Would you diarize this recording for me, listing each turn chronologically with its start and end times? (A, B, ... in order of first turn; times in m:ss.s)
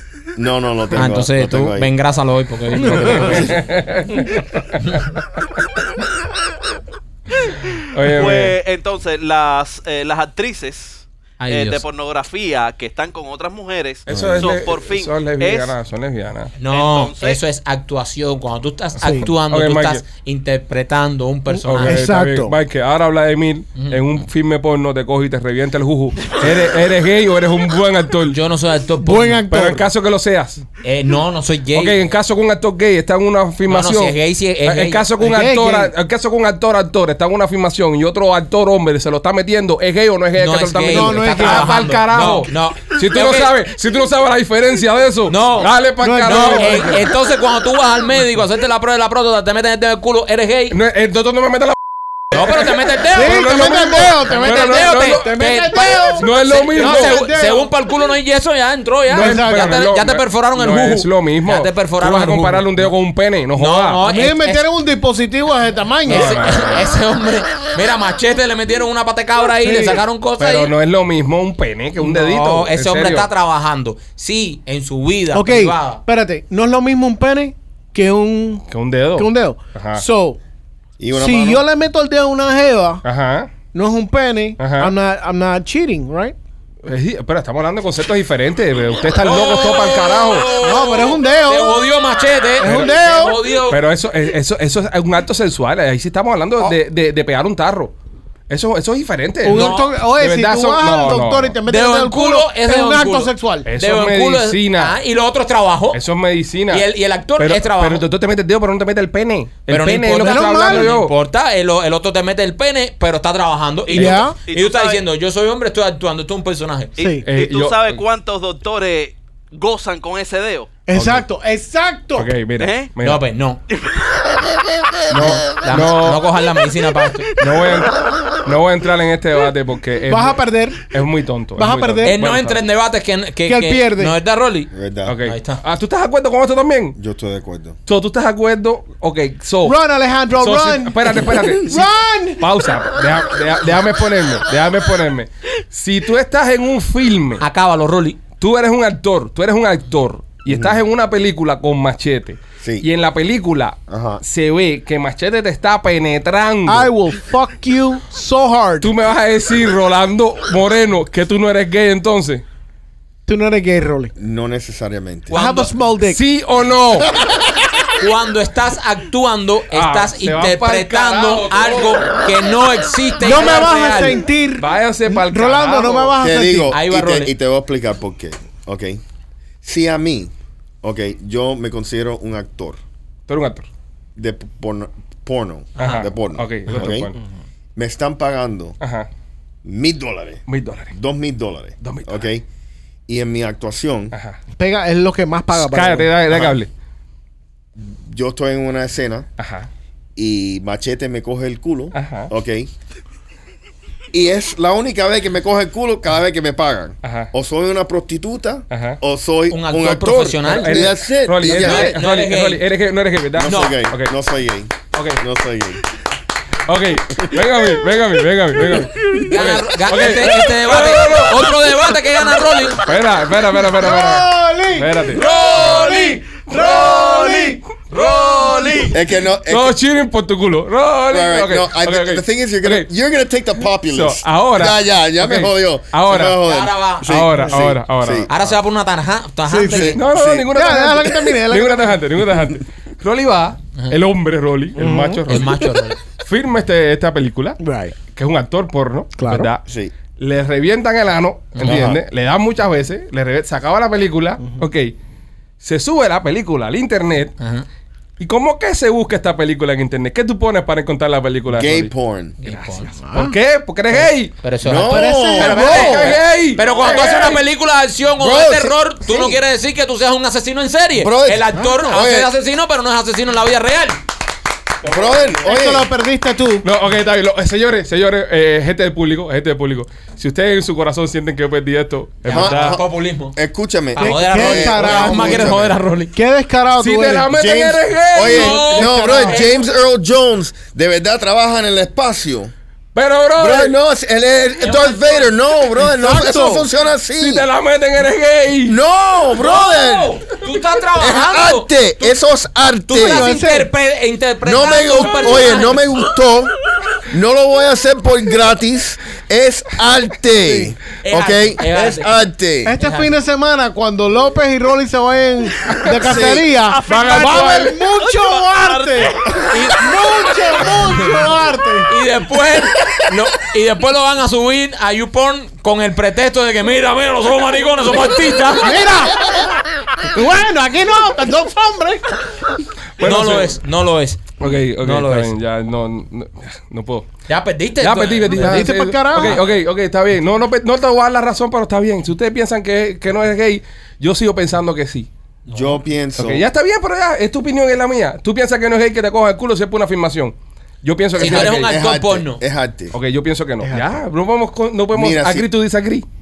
0:00.4-0:01.9 A
0:00.9-0:03.6 B
0:03.1-0:05.1 C
0:07.9-0:08.6 C
0:08.1-0:15.7 D
0:11.4-0:11.8 B
0:14.0-0:16.5 C
0:14.1-0:14.5 A
0:16.6-0:22.0 B
0:16.7-0:17.4 D
0:19.0-0:19.3 E
0:19.5-0:20.0 C
0:21.7-0:28.4 C
0:21.7-0:22.6 E
0:28.3-0:29.4 B
0:29.0-0:29.9 E
0:29.5-0:30.6 C
0:30.8-0:32.0 B
0:31.7-0:47.0 C
0:33.7-0:35.1 B
0:35.2-0:35.9 E
0:40.4-0:43.5 B
0:40.9-0:42.2 E
0:45.3-0:50.8 B
0:46.0-0:47.0 E
0:50.7-0:51.8 C
0:52.3-0:55.4 C
0:52.3-1:02.9 B
0:53.1-0:57.7 E
0:56.2-0:57.2 C
0:59.1-0:59.8 E
0:59.1-1:04.0 C
1:03.5-1:04.6 B
1:04.0-1:06.5 E
1:06.0-1:10.7 B
1:06.1-1:07.0 C
1:09.6-1:10.0 E
1:10.4-1:13.3 C
1:12.0-1:16.0 B
1:15.3-1:20.4 E
1:18.7-1:20.0 C
1:21.0-1:21.6 A
1:21.1-1:23.0 E
1:23.0-1:23.5 C
1:23.7-1:26.4 E
1:24.6-1:24.9 C
1:26.8-1:30.5 C
1:29.2-1:33.8 B
1:30.6-1:31.9 E
1:32.6-1:33.4 E
1:32.6-1:32.9 C
1:33.6-1:37.9 C
1:38.5-1:41.6 C
1:39.4-1:43.7 E
1:39.4-1:39.9 B
1:41.7-1:46.0 B
1:43.6-1:45.0 C
1:45.9-1:51.1 C
1:46.7-1:48.1 B
1:49.7-1:56.9 B
1:50.2-1:50.9 E
1:53.9-1:54.4 E
1:53.9-1:55.0 D
1:57.0-1:57.2 E
1:57.0-2:00.7 D
1:57.2-1:58.0 C
2:00.9-2:02.3 E
2:00.9-2:01.2 C
2:02.2-2:03.2 C
2:02.6-2:02.9 D
2:03.0-2:03.6 B
2:03.7-2:04.0 D
2:05.1-2:06.3 C
2:05.1-2:07.4 B
2:07.4-2:12.6 C
2:10.1-2:10.9 E
2:11.6-2:12.2 E
2:12.0-2:15.6 B
2:13.4-2:14.1 E
2:14.7-2:15.1 A
2:15.0-2:17.0 C
2:17.0-2:17.8 A
2:17.8-2:19.8 C
2:19.6-2:22.4 E
2:20.4-2:27.4 C
2:27.4-2:28.2 B
2:28.4-2:36.9 C
2:30.5-2:30.8 A
2:33.9-2:34.2 A
2:36.7-2:38.9 E
2:38.8-2:42.4 C
2:43.2-2:44.1 E
2:44.2-2:45.4 A
2:45.3-2:45.7 B
2:45.3-2:46.2 E
2:46.1-2:47.1 C
2:48.0-2:54.2 B
2:49.7-2:52.2 C
2:53.2-2:56.7 E
2:54.6-2:56.2 C
2:56.2-2:59.0 A
2:56.7-2:57.3 B
2:59.6-3:00.3 A
3:00.8-3:02.8 A
3:03.3-3:03.7 C
3:04.2-3:07.1 A
3:05.8-3:06.1 B
3:05.8-3:07.2 C
3:07.8-3:08.8 A
3:08.8-3:09.1 C
3:09.6-3:12.4 A
3:10.5-3:10.9 C
3:11.8-3:12.2 C
3:13.1-3:14.1 A
3:14.1-3:14.4 C
3:14.6-3:16.3 E
3:15.5-3:16.7 C
3:17.8-3:19.3 A
3:19.4-3:19.7 C
3:20.2-3:22.7 A
3:21.9-3:22.3 C
3:24.1-3:32.0 A
3:27.0-3:27.3 C
3:28.7-3:29.0 C
3:29.5-3:30.9 B
3:30.5-3:34.1 C
3:31.4-3:32.6 B
3:33.4-3:35.8 A
3:33.4-3:33.8 B
3:34.9-3:35.2 C
3:36.6-3:41.6 C
3:37.1-3:37.4 A
3:39.2-3:42.8 B
3:42.8-3:45.3 C
3:43.6-3:48.9 E
3:45.1-3:46.9 B
3:46.6-3:47.5 C
3:47.9-3:48.9 B
3:48.1-3:48.8 C
3:48.9-3:49.8 A
3:49.5-3:52.9 C
3:51.1-3:58.3 A
3:53.8-3:56.4 C
3:56.3-3:57.2 B
3:57.0-3:58.4 C
3:58.3-4:00.0 B
3:59.5-4:00.0 E
3:59.7-4:00.5 A
3:59.9-4:14.9 C
4:00.5-4:02.0 E
4:04.8-4:05.4 E
4:05.3-4:06.0 B
4:07.6-4:08.0 E
4:09.2-4:09.5 E
4:09.6-4:09.9 A
4:11.5-4:11.8 B
4:11.6-4:12.0 A
4:15.6-4:17.3 C
4:17.4-4:17.6 B
4:18.2-4:21.9 C
4:21.5-4:22.4 A
4:22.4-4:23.0 B
4:22.5-4:24.4 C
4:23.0-4:23.4 E
4:24.4-4:34.0 B
4:24.6-4:26.2 A
4:24.8-4:26.2 E
4:25.4-4:27.4 C
4:28.2-4:29.4 A
4:31.0-4:32.3 A
4:34.8-4:35.9 A
4:35.4-4:36.7 E
4:36.6-4:42.8 C
4:42.2-4:43.4 B
4:42.3-4:45.8 A
4:43.9-4:46.1 B
4:44.0-4:45.5 E
4:46.1-4:47.3 E
4:46.8-4:48.8 C
4:47.3-4:52.5 A
4:48.2-4:49.6 B
4:48.2-4:49.5 E
4:52.9-4:53.8 C
4:53.4-4:57.5 A
4:54.6-4:55.3 B
4:55.8-4:56.7 E
4:57.2-4:58.8 C
4:58.6-5:00.2 A
4:59.4-5:02.2 B
5:00.9-5:03.3 A
5:02.9-5:05.8 B
5:02.9-5:03.7 E
5:04.4-5:12.7 A
5:10.3-5:10.7 E
5:11.0-5:12.1 B
5:12.6-5:21.9 E
5:12.8-5:13.1 B
5:16.0-5:16.5 A
5:16.7-5:19.5 D
5:16.9-5:17.7 C
5:19.5-5:19.9 B
5:20.0-5:20.5 D
5:20.9-5:21.2 B
5:21.9-5:28.8 B
5:28.6-5:32.3 E
5:33.0-5:33.6 C
5:33.0-5:35.3 B
5:34.4-5:37.1 C
5:37.3-5:39.4 B
5:37.8-5:45.1 C
5:38.3-5:39.4 E
5:45.4-5:45.8 B
5:45.5-5:46.4 A
5:46.2-5:51.7 C
5:51.1-5:52.4 B
5:51.1-5:52.9 A
5:52.9-5:56.0 C
5:53.6-5:53.9 E
5:54.9-5:55.5 A